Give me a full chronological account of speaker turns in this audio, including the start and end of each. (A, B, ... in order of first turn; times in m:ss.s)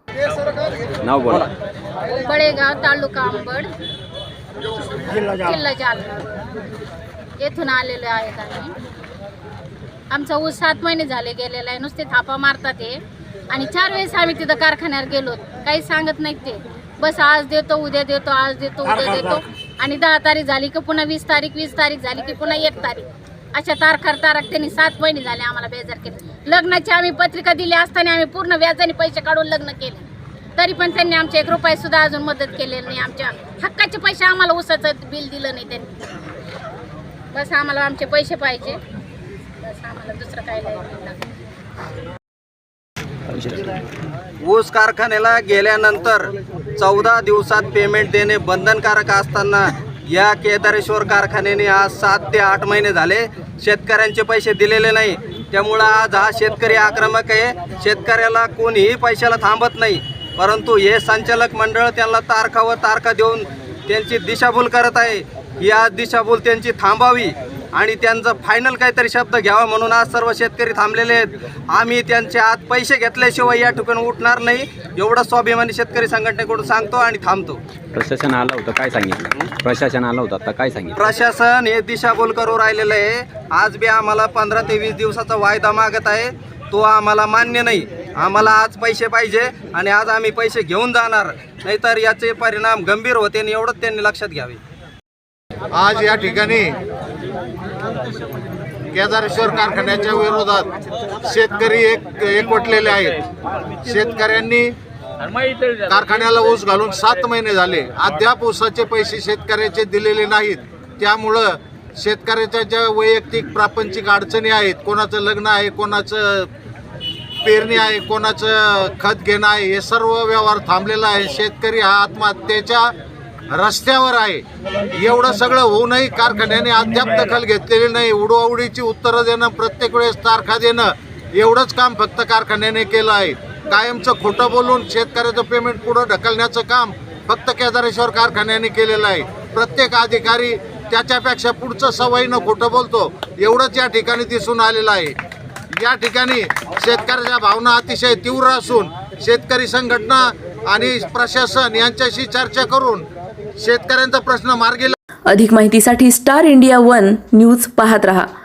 0:01.0-0:01.5 A
0:02.2-0:03.7 B
0:05.1-0:06.4 B
0:07.4-0:08.7 B
0:10.1-0:13.0 B
0:13.5-0:30.0 B
0:30.6-0:36.0 B
0:37.3-0:38.8 B
0:39.6-0:41.2 B
0:43.3-0:43.7 A
0:44.4-1:17.6 C
1:17.9-1:21.1 A
1:21.0-1:34.6 C
1:35.7-1:36.8 D
1:38.9-1:40.7 D
1:41.2-1:43.2 D
1:43.8-1:44.7 D
1:45.6-1:56.5 D
1:57.4-2:02.9 D
2:03.5-2:25.2 D
2:25.8-2:33.0 D
2:33.6-2:34.9 D
2:35.3-2:38.3 E